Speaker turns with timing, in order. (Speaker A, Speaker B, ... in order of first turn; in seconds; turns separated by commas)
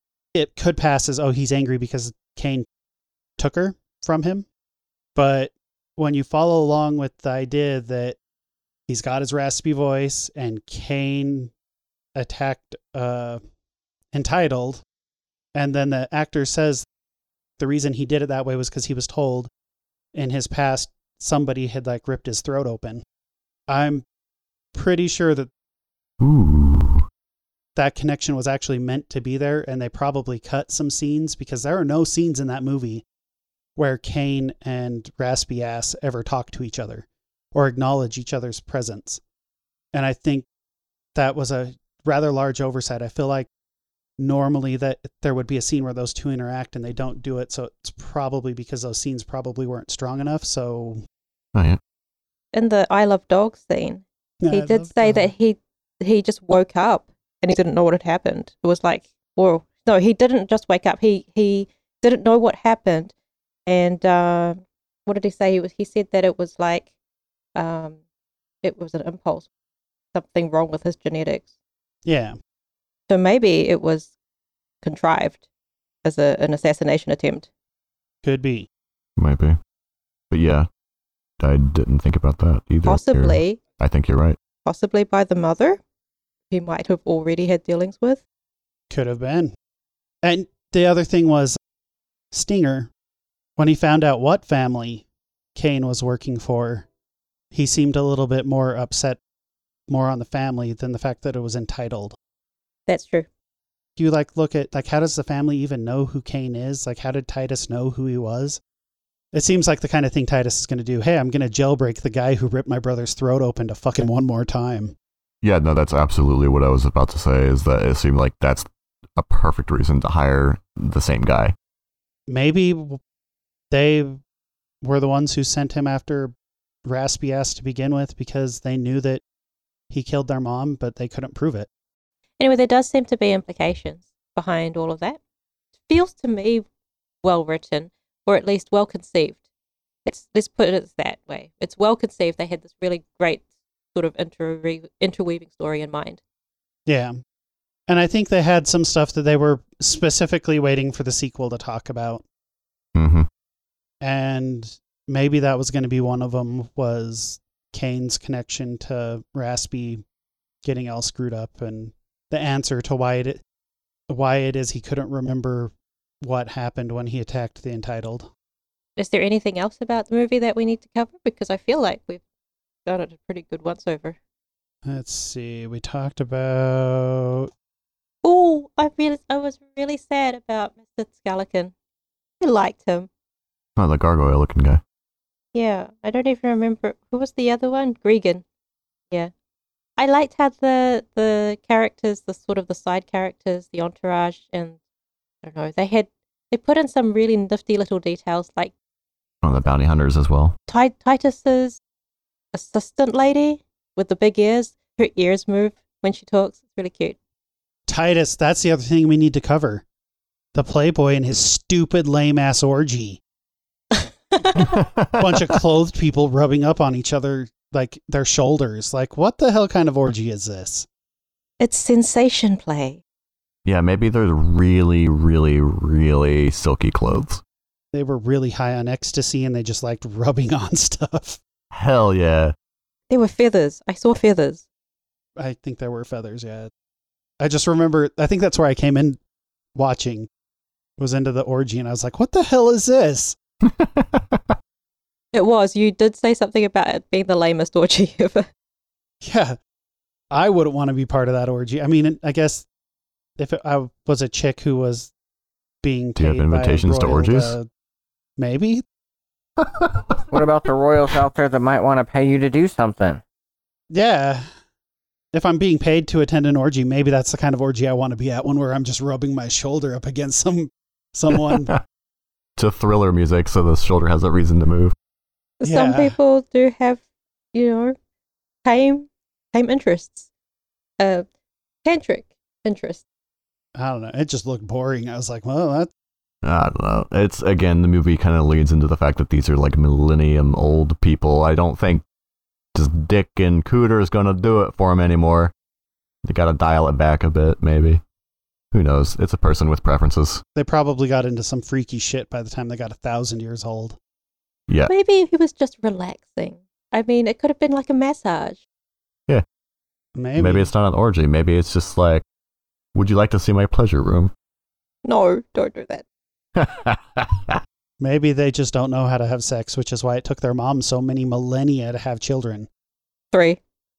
Speaker A: 0.3-2.6, Speaker A: 3.4-4.5, Speaker A: 5.2-8.2, Speaker A: 8.9-11.5, Speaker A: 12.2-13.4, Speaker A: 14.1-14.8, Speaker A: 15.5-16.9, Speaker A: 17.6-19.5, Speaker A: 20.1-23.0, Speaker A: 23.7-24.0, Speaker A: 24.7-25.5, Speaker B: 26.2-27.0, Speaker A: 27.8-33.0, Speaker A: 33.8-39.2, Speaker A: 39.9-40.5, Speaker A: 41.1-43.5, Speaker A: 44.2-51.0, Speaker C: 52.5-63.1, Speaker A: 54.4-55.3, Speaker C: 63.6-66.9, Speaker C: 67.5-68.0, Speaker C: 68.6-69.5, Speaker C: 70.1-71.5, Speaker A: 72.0-72.3, Speaker C: 73.1-74.1, Speaker C: 74.8-75.4, Speaker C: 76.0-77.5, Speaker A: 78.2-78.7, Speaker B: 79.2-79.6, Speaker B: 80.3-80.7, Speaker B: 81.4-84.4, Speaker C: 82.8-83.6, Speaker C: 84.6-85.8, Speaker C: 86.5-88.2, Speaker A: 88.9-89.5, Speaker A: 90.2-91.6, Speaker A: 92.3-92.9, Speaker A: 93.6-96.9, Speaker A: 97.5-99.2, Speaker A: 99.9-102.2, Speaker C: 102.9-103.3, Speaker A: 104.0-108.6, Speaker A: 109.3-114.9, Speaker B: 115.4-121.5, Speaker A: 122.3-123.0, Speaker A: 123.7-124.2, Speaker A: 124.8-126.3, Speaker A: 126.8-129.2, Speaker A: 129.9-131.7, Speaker C: 132.4-135.2, Speaker C: 135.9-136.6, Speaker C: 137.2-139.4, Speaker C: 140.1-146.2, Speaker A: 146.9-147.1, Speaker A: 147.9-152.2, Speaker B: 152.9-153.3, Speaker A: 154.0-160.0, Speaker A: 160.6-163.4, Speaker A: 164.1-168.3, Speaker C: 169.0-172.2, Speaker C: 172.9-174.2, Speaker A: 174.9-177.5, Speaker C: 178.2-181.7, Speaker C: 182.4-183.1, Speaker B: 183.8-184.8, Speaker C: 185.5-188.4, Speaker C: 190.0-194.8, Speaker C: 195.4-198.7, Speaker B: 199.4-200.5, Speaker C: 200.7-201.8, Speaker C: 202.5-207.2, Speaker A: 207.9-209.8, Speaker A: 210.5-213.2, Speaker C: 213.9-214.7, Speaker B: 214.6-215.2, Speaker A: 215.2-220.9, Speaker C: 221.6-223.0, Speaker B: 223.7-227.4, Speaker A: 227.9-231.4, Speaker B: 231.7-232.5, Speaker C: 233.1-234.6, Speaker A: 235.4-236.7, Speaker A: 237.4-239.2, Speaker A: 239.7-240.3, Speaker A: 241.0-243.4, Speaker B: 243.6-244.5, Speaker C: 245.3-248.5, Speaker A: 249.2-249.6, Speaker A: 250.3-252.6, Speaker A: 253.4-255.1, Speaker A: 255.8-257.7, Speaker B: 256.2-257.5, Speaker A: 258.4-258.8, Speaker B: 259.6-260.2, Speaker D: 260.3-263.2, Speaker A: 263.9-264.4, Speaker A: 265.3-271.7, Speaker B: 272.6-274.9, Speaker C: 275.6-277.0, Speaker A: 275.6-276.1, Speaker C: 277.5-277.9, Speaker C: 278.6-280.3, Speaker C: 281.0-281.2, Speaker C: 281.9-283.0, Speaker A: 283.8-285.9, Speaker B: 286.4-292.0, Speaker B: 292.7-295.5, Speaker B: 296.2-298.0, Speaker B: 298.7-300.4, Speaker A: 300.6-304.0, Speaker C: 304.9-308.6, Speaker A: 310.1-310.7, Speaker B: 310.4-312.2, Speaker B: 312.9-314.3, Speaker C: 315.0-316.0, Speaker B: 316.6-317.6, Speaker A: 318.0-322.7, Speaker C: 323.3-323.6